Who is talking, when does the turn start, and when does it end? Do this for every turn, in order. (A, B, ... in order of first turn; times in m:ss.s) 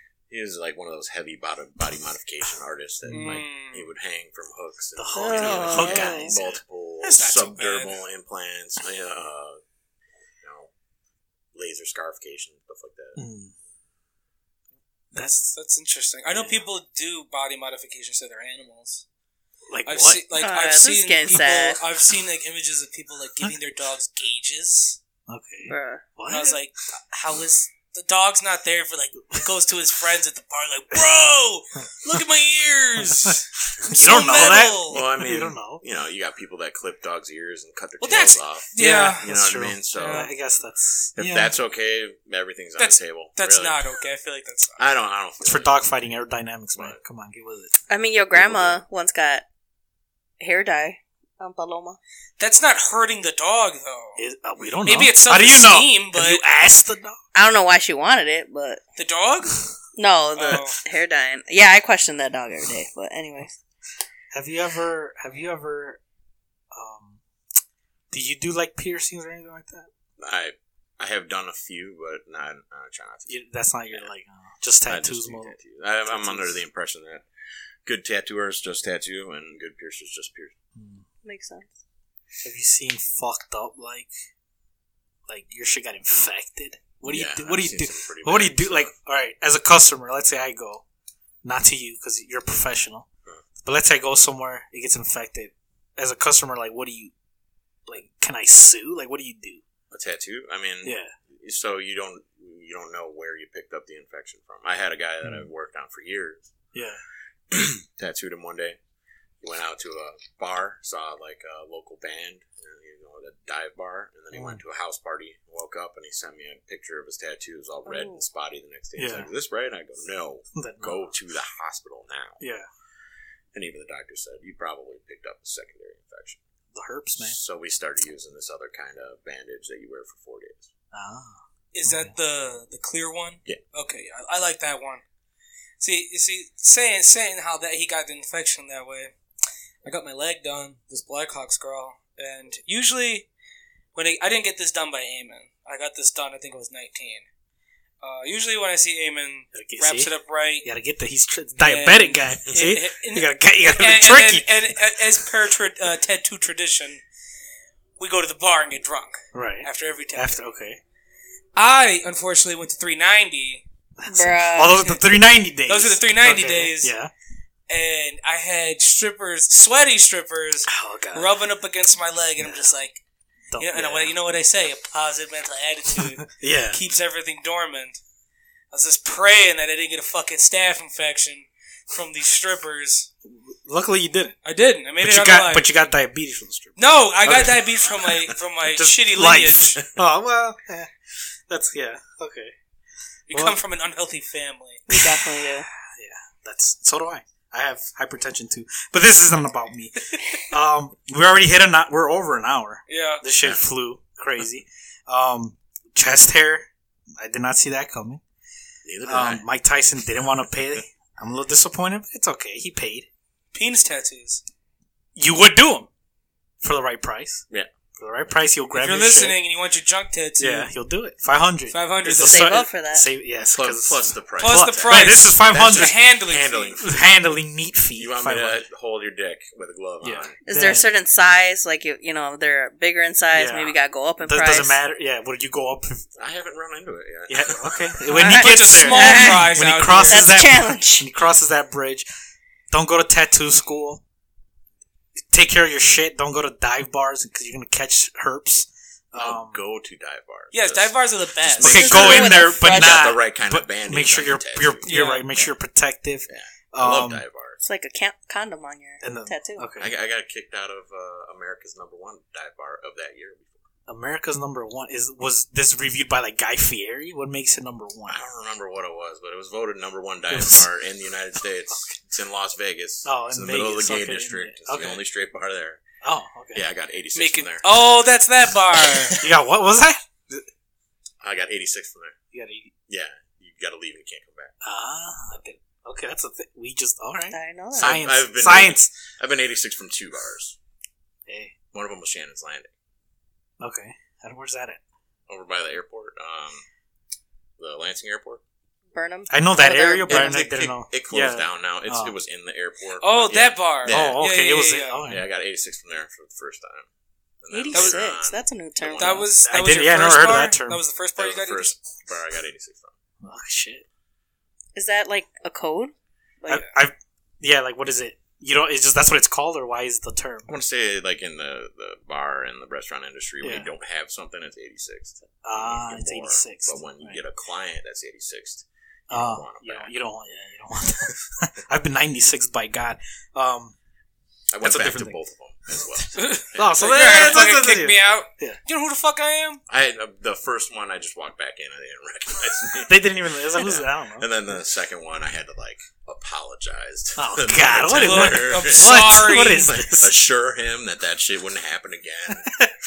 0:00.3-0:09.6 A
0:03.0-0:03.4 B
0:03.1-0:03.9 C
0:05.0-0:06.6 B
0:05.2-0:06.4 D
0:07.0-0:08.0 C
0:10.4-0:10.7 A
0:11.5-0:13.2 A
0:13.2-0:13.5 B
0:15.1-0:15.5 B
0:15.2-0:19.0 C
0:16.3-0:16.6 B
0:19.7-0:20.2 B
0:19.9-0:25.0 C
0:20.4-0:21.8 D
0:25.3-0:26.6 B
0:25.7-0:26.0 D
0:26.3-0:35.0 C
0:33.2-0:35.8 B
0:34.9-0:40.3 A
0:38.0-0:39.2 C
0:38.8-0:41.5 B
0:40.0-0:40.3 C
0:41.2-0:43.8 A
0:42.8-0:44.8 C
0:44.8-0:45.7 A
0:45.4-0:47.8 B
0:47.9-0:49.4 D
0:48.3-0:48.8 A
0:50.4-0:52.0 D
0:52.4-0:54.2 C
0:54.2-0:57.2 B
0:54.8-0:56.4 C
0:57.3-0:58.8 D
0:59.0-0:59.6 C
1:00.0-1:03.5 D
1:00.4-1:00.8 C
1:04.3-1:06.0 B
1:06.7-1:07.2 B
1:08.1-1:09.9 B
1:10.2-1:13.3 A
1:13.3-1:16.6 B
1:14.9-1:17.3 A
1:17.8-1:20.6 A
1:20.8-1:21.0 B
1:21.2-1:21.7 D
1:22.4-1:24.1 B
1:25.3-1:30.8 B
1:27.0-1:28.9 A
1:31.4-1:33.1 B
1:33.6-1:37.1 B
1:37.9-1:39.6 B
1:39.9-1:46.5 A
1:40.8-1:41.1 B
1:46.7-1:47.0 B
1:47.5-1:48.8 A
1:49.4-2:02.4 A
1:54.3-1:54.6 B
1:57.9-1:58.2 D
1:59.0-1:59.3 B
2:00.6-2:01.1 B
2:02.4-2:02.7 B
2:03.5-2:06.4 A
2:06.7-2:07.4 B
2:07.2-2:10.7 A
2:10.9-2:12.1 B
2:11.7-2:15.0 C
2:15.8-2:19.1 C
2:19.8-2:23.3 C
2:24.0-2:27.2 C
2:28.0-2:30.7 C
2:29.5-2:30.1 B
2:30.6-2:34.5 B
2:31.6-2:37.0 C
2:38.0-2:40.4 C
2:39.3-2:40.8 B
2:41.6-2:43.6 C
2:44.0-2:47.1 B
2:44.1-2:44.8 D
2:45.7-2:46.9 C
2:47.7-2:53.0 C
2:50.7-2:51.3 B
2:52.4-2:52.7 B
2:53.5-2:54.1 B
2:53.6-2:58.0 C
2:56.0-2:56.8 B
2:58.7-3:03.1 C
3:03.3-3:04.4 B
3:04.4-3:05.7 C
3:05.0-3:07.6 B
3:06.8-3:09.8 C
3:08.8-3:10.9 B
3:11.5-3:12.5 B
3:13.3-3:14.9 C
3:13.3-3:13.6 B
3:14.9-3:15.2 B
3:14.9-3:15.7 D
3:15.8-3:28.2 B
3:22.9-3:23.2 C
3:28.8-3:29.5 A
3:29.1-3:33.1 B
3:33.5-3:34.4 C
3:35.2-3:35.9 B
3:36.6-3:37.4 B
3:38.0-3:39.4 B
3:38.8-3:40.7 C
3:40.4-3:46.0 B
3:41.7-3:42.7 C
3:42.1-3:43.0 D
3:43.5-3:47.0 A
3:44.4-3:46.7 C
3:46.8-3:48.6 B
3:48.0-3:50.4 A
3:50.0-3:50.9 B
3:50.5-3:54.8 D
3:53.3-3:56.1 B
3:56.2-3:58.0 A
3:57.3-4:02.1 B
3:58.1-3:59.6 D
3:58.1-4:00.4 C
4:00.1-4:01.1 D
4:02.7-4:04.0 B
4:05.3-4:09.6 B
4:09.2-4:15.6 A
4:10.5-4:12.2 C
4:11.6-4:17.2 B
4:11.6-4:13.1 D
4:14.9-4:15.3 C
4:16.3-4:17.6 A
4:17.6-4:19.7 D
4:19.0-4:19.9 B
4:19.8-4:23.7 A
4:23.9-4:28.2 B
4:28.1-4:35.8 A
4:30.3-4:30.7 B
4:31.7-4:32.0 B
4:33.0-4:35.0 B
4:36.0-4:36.6 B
4:36.5-4:37.7 A
4:37.2-4:39.2 C
4:39.2-4:40.5 B
4:41.2-4:42.2 A
4:42.3-4:42.7 B
4:42.9-4:44.5 A
4:44.6-4:48.9 B
4:47.3-4:48.0 D
4:47.8-4:50.6 A
4:51.3-4:51.5 B
4:51.7-4:52.7 A
4:53.6-4:54.8 B
4:55.3-4:56.6 A
4:57.6-4:58.4 A
4:58.9-5:00.5 D
4:59.3-5:02.2 B
5:00.1-5:04.2 A
5:03.0-5:05.0 C
5:03.9-5:05.2 B
5:05.1-5:06.9 A
5:07.4-5:09.3 A
5:07.5-5:09.3 D
5:07.7-5:08.0 C
5:09.0-5:11.8 C
5:09.4-5:10.8 B
5:11.2-5:12.9 A
5:13.2-5:13.8 B
5:14.8-5:16.7 D
5:16.5-5:20.6 B
5:20.5-5:29.9 A
5:23.4-5:23.7 B
5:25.4-5:27.2 B
5:29.1-5:33.8 B
5:34.5-5:36.7 A
5:34.6-5:35.2 B
5:36.2-5:39.6 C
5:36.5-5:38.6 B
5:39.7-5:52.5 A
5:42.9-5:44.3 B
5:47.2-5:50.2 B
5:47.9-5:49.8 C
5:52.4-5:52.7 B